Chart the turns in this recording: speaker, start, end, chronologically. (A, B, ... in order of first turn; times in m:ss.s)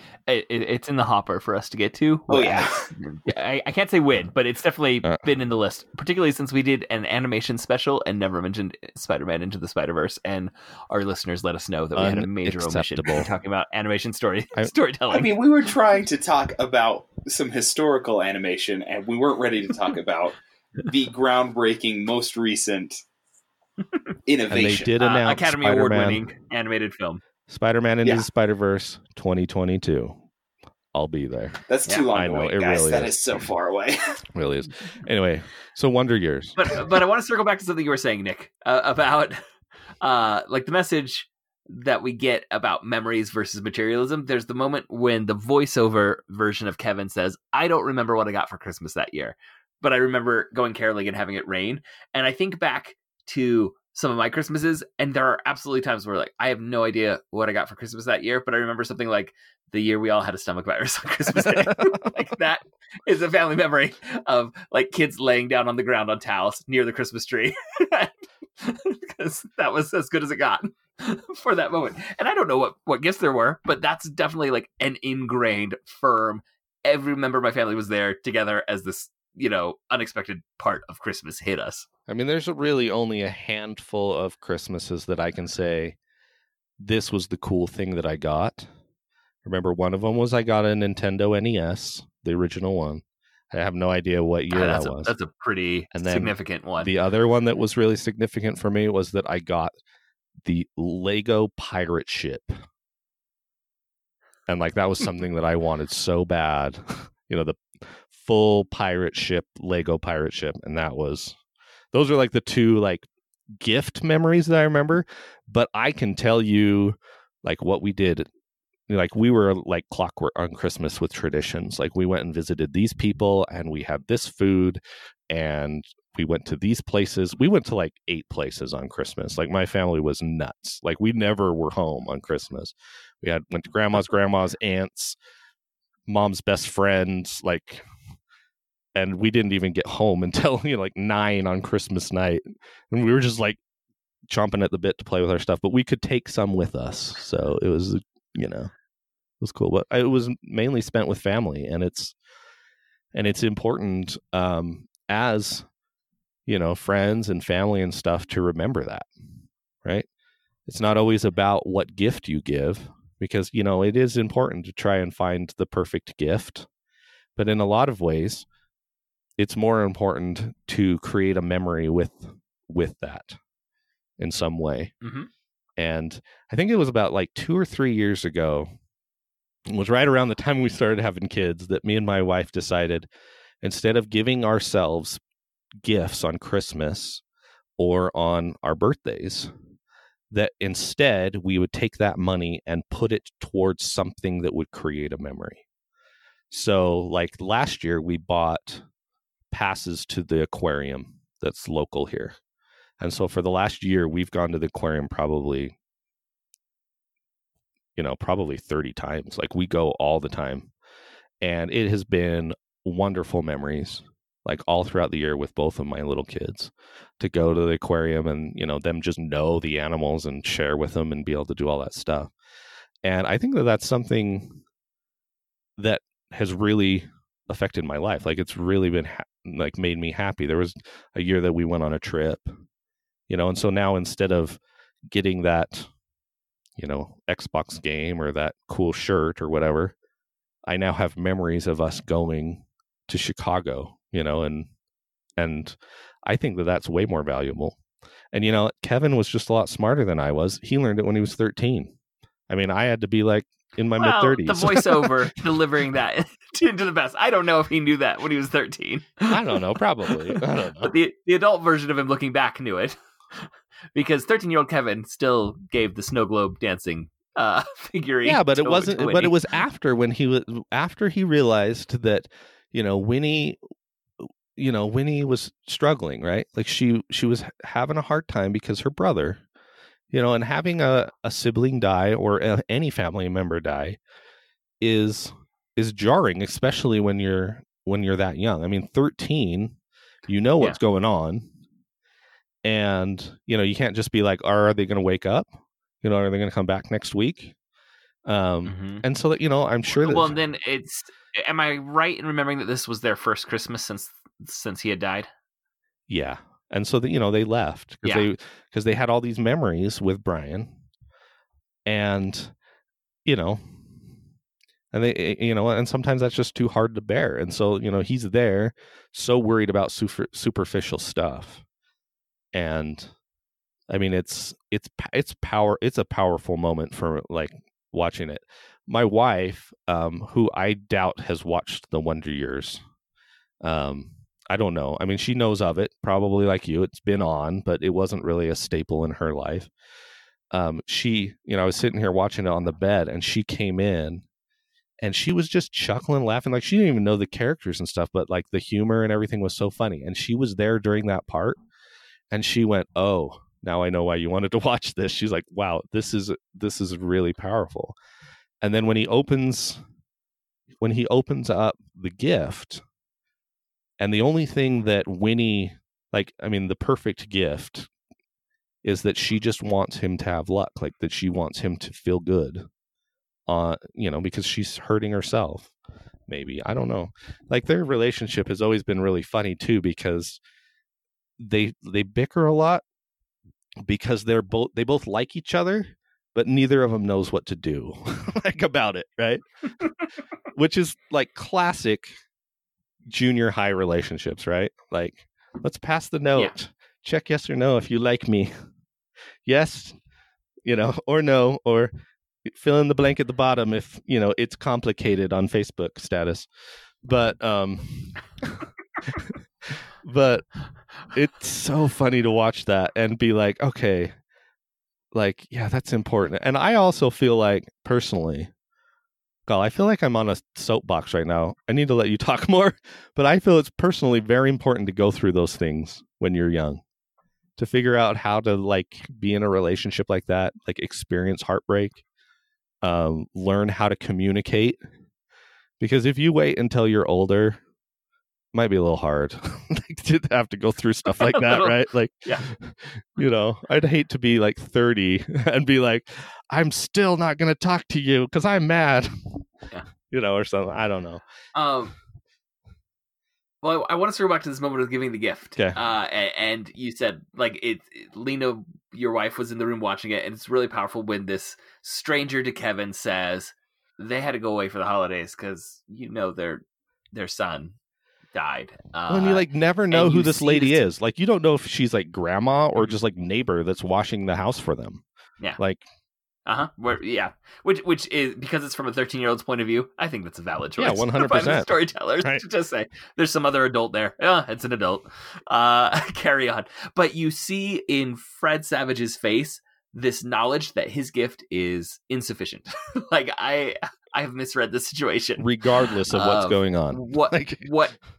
0:00.3-0:15.4 A
0:02.3-0:02.9 B
0:12.0-0:13.3 C
0:15.1-0:23.0 B
0:24.3-0:24.9 B
0:24.5-0:26.2 C
0:25.0-0:27.2 A
0:27.5-0:30.2 C
0:30.9-0:33.2 C
0:31.7-0:34.2 B
0:34.3-0:36.8 C
0:36.6-0:39.4 A
0:40.0-1:21.9 A
1:01.4-1:01.9 C
1:22.1-1:26.0 C
1:26.8-1:28.7 C
1:29.4-1:35.1 C
1:34.5-1:36.9 A
1:35.9-1:39.7 C
1:40.4-1:42.6 C
1:44.5-1:51.4 C
1:51.9-1:53.1 C
1:53.6-1:58.3 C
1:58.9-2:15.2 C
2:16.1-2:17.9 C
2:18.9-2:23.6 C
2:24.3-2:28.7 C
2:29.4-2:32.1 C
2:33.1-2:35.6 C
2:36.5-2:39.1 C
2:40.6-2:46.7 C
2:47.4-2:48.4 C
2:49.4-2:53.4 C
2:54.2-2:54.9 C
2:55.0-2:55.3 A
2:55.8-2:58.7 C
2:59.7-3:03.1 C
3:03.6-3:05.2 C
3:05.8-3:07.2 C
3:07.8-3:09.5 C
3:10.3-3:15.6 C
3:16.5-3:18.8 C
3:19.5-3:22.4 C
3:23.0-3:25.7 C
3:28.0-3:30.7 C
3:31.4-3:42.3 C
3:43.0-3:44.6 C
3:45.8-3:52.5 C
3:53.3-3:55.9 C
3:56.8-3:59.9 C
4:00.6-4:04.7 C
4:05.4-4:07.8 C
4:08.3-4:11.9 C
4:12.5-4:15.3 C
4:14.0-4:29.4 A
4:19.3-4:20.9 C
4:28.2-4:33.6 C
4:34.6-4:39.4 C
4:40.1-4:44.0 C
4:44.8-4:51.5 C
4:52.6-4:55.5 C
4:56.0-4:57.5 C
4:58.2-5:00.4 C
4:58.6-4:59.0 A
5:00.0-5:05.3 A
5:06.1-5:10.8 C
5:11.8-5:12.5 C
5:13.2-5:13.7 C
5:14.9-5:21.6 C
5:22.5-5:23.1 C
5:23.9-5:32.8 C
5:33.6-5:39.7 C
5:40.5-5:44.2 C
5:45.0-5:51.6 C
5:52.3-5:58.0 C
5:58.6-5:59.8 C
6:00.8-6:02.8 C
6:04.0-6:07.9 C
6:08.8-6:12.7 C
6:13.5-6:15.7 C
6:16.3-6:20.4 C
6:21.4-6:22.8 C
6:23.8-6:29.4 C
6:30.5-6:32.2 C
6:33.1-6:38.5 C
6:39.4-6:40.0 C
6:40.6-6:41.9 C
6:42.4-6:46.5 C
6:47.0-6:50.4 C
6:51.1-6:54.1 C
6:55.1-6:58.5 C
6:59.5-7:06.8 C
7:07.6-7:12.0 C
7:12.8-7:14.8 C
7:15.8-7:17.6 C
7:18.5-7:29.4 C
7:21.2-7:22.5 A
7:30.1-7:31.2 C
7:31.5-7:31.9 A
7:33.6-7:47.7 A
7:48.3-7:50.8 A
7:49.1-7:55.0 C
7:55.6-7:55.8 C
7:56.4-8:15.5 A
8:00.8-8:02.4 C
8:15.4-8:17.7 C
8:16.1-8:17.9 A